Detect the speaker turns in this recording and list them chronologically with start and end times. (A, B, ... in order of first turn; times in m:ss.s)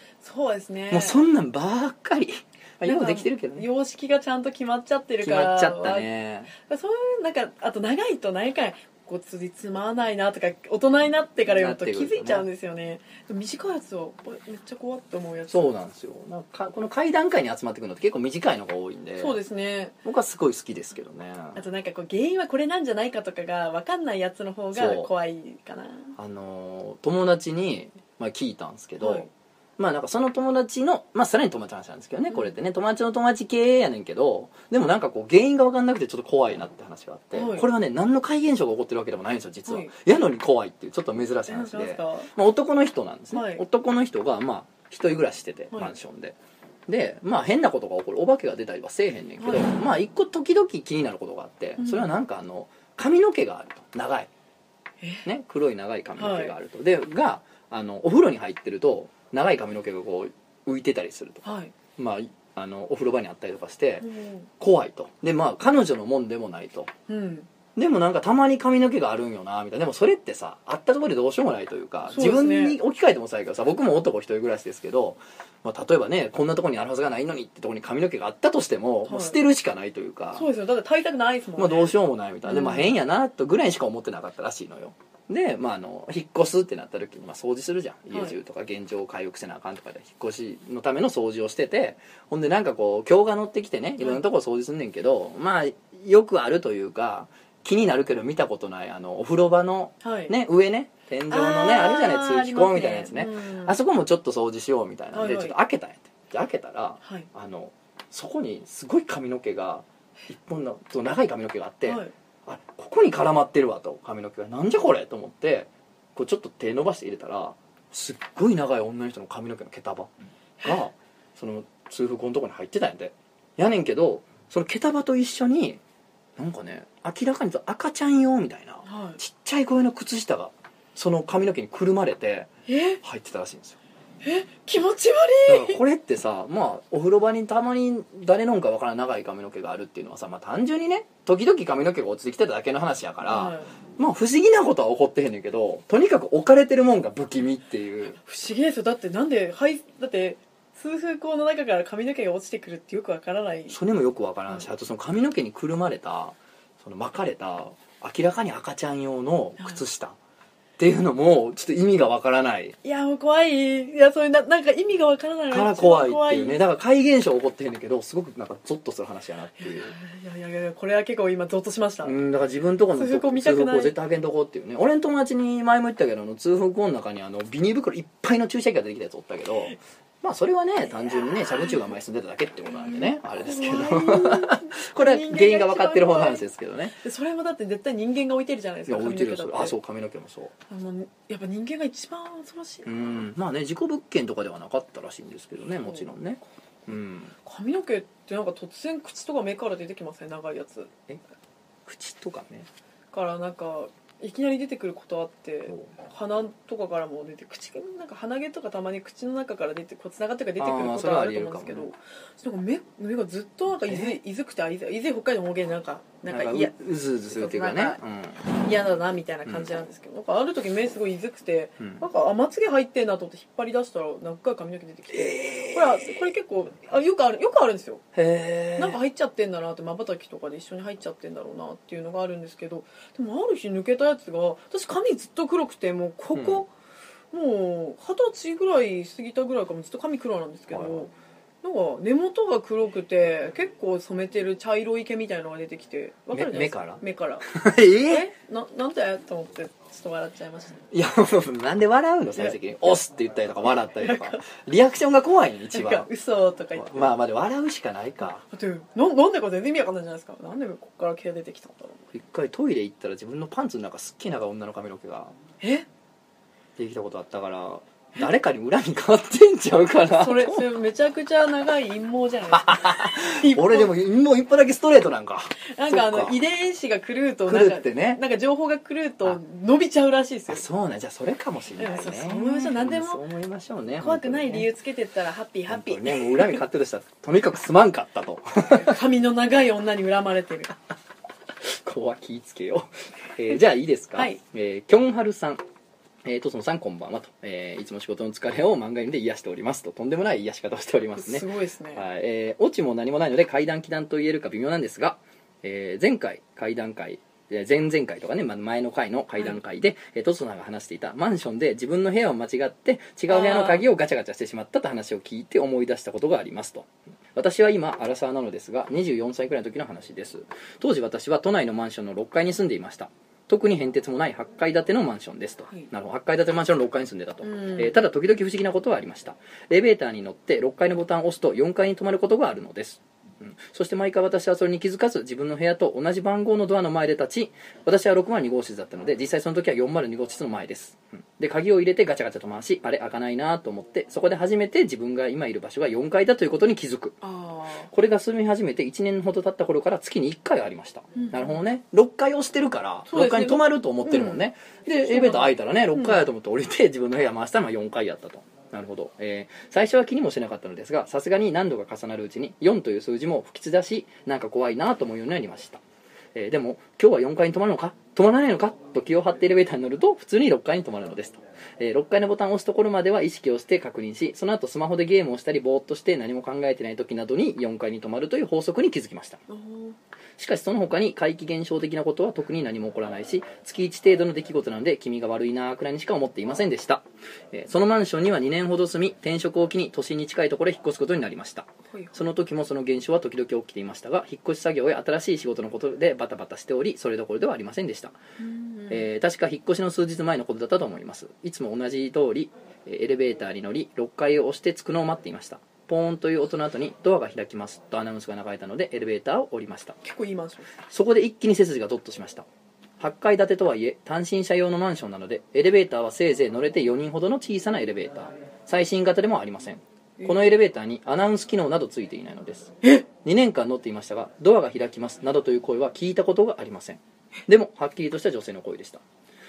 0:00.2-0:01.2 A
0:00.9-0:03.7 B
0:02.8-0:15.7 A
0:05.2-0:06.5 B
0:11.5-0:12.5 B
0:15.5-0:19.4 B
0:19.2-0:20.0 A
0:20.0-0:21.6 B
0:21.6-0:26.1 A
0:24.7-0:25.1 B
0:26.2-0:46.4 B
0:29.0-0:29.3 A
0:32.3-0:32.6 A
0:37.3-0:37.7 A
0:39.7-0:39.9 A
0:41.5-0:42.3 A
0:43.3-0:43.6 A
0:46.9-0:54.3 B
0:49.4-0:49.7 A
0:51.8-0:52.1 A
0:55.2-1:01.4 B
0:56.2-0:56.6 A
1:01.4-1:01.7 A
1:02.0-1:06.9 B
1:04.0-1:04.5 A
1:07.1-1:07.5 A
1:07.8-1:20.5 B
1:12.1-1:12.8 A
1:19.1-1:19.4 A
1:20.3-1:22.0 A
1:21.6-2:00.1 B
1:22.5-1:22.9 A
1:28.1-1:28.4 A
1:40.0-1:40.3 A
1:41.3-1:43.8 A
1:45.1-1:45.6 A
1:51.9-1:52.1 A
2:00.6-2:05.8 B
2:06.4-2:13.8 B
2:08.8-2:09.2 A
2:12.7-2:13.0 A
2:14.2-2:15.8 A
2:15.5-2:28.2 B
2:23.3-2:23.7 A
2:28.2-2:33.8 A
2:33.7-2:40.2 B
2:40.8-2:42.8 B
2:42.8-2:46.6 A
2:45.5-2:49.9 B
2:49.6-2:52.2 A
2:52.0-3:07.0 B
2:53.0-2:53.9 A
3:01.1-3:01.9 A
3:02.8-3:06.4 A
3:07.0-3:09.8 A
3:08.9-3:10.5 B
3:10.7-3:13.2 A
3:12.8-3:17.4 B
3:17.4-3:21.0 A
3:21.9-3:22.7 B
3:23.1-3:36.7 A
3:30.6-3:31.9 B
3:33.9-3:34.2 B
3:36.3-3:38.5 B
3:37.3-3:48.0 A
3:41.8-3:42.0 B
3:45.1-3:46.2 B
3:48.2-3:49.0 B
3:48.8-3:56.7 A
3:56.3-3:56.6 B
3:57.3-4:01.1 A
4:00.7-4:01.1 B
4:01.6-4:07.5 A
4:06.3-4:08.3 B
4:08.1-4:10.8 A
4:10.9-4:16.1 B
4:14.0-4:14.5 A
4:15.7-4:17.1 A
4:16.8-4:18.4 B
4:18.5-4:22.0 A
4:22.1-4:25.4 B
4:25.6-4:25.9 A
4:26.8-4:30.7 B
4:30.2-4:33.9 A
4:32.5-4:36.4 B
4:35.7-4:40.7 A
4:37.5-4:38.2 B
4:40.5-4:44.7 B
4:41.8-4:43.2 A
4:44.0-4:46.6 A
4:45.7-4:49.0 B
4:48.6-4:50.8 A
4:51.6-4:55.6 B
4:56.2-5:47.2 B
5:01.2-5:02.0 A
5:13.3-5:13.8 A
5:27.4-5:27.9 A
5:47.2-5:47.9 A
5:47.9-6:05.8 B
5:51.2-5:51.6 A
5:53.1-5:54.4 A
5:55.0-5:56.2 A
6:06.4-6:19.4 B
6:19.5-6:20.0 A
6:20.4-6:38.2 B
6:31.9-6:32.2 A
6:38.4-6:39.1 A
6:38.9-6:50.0 B
6:50.0-6:50.8 A
6:50.9-6:52.5 B
6:53.0-7:09.0 B
7:00.2-7:00.4 A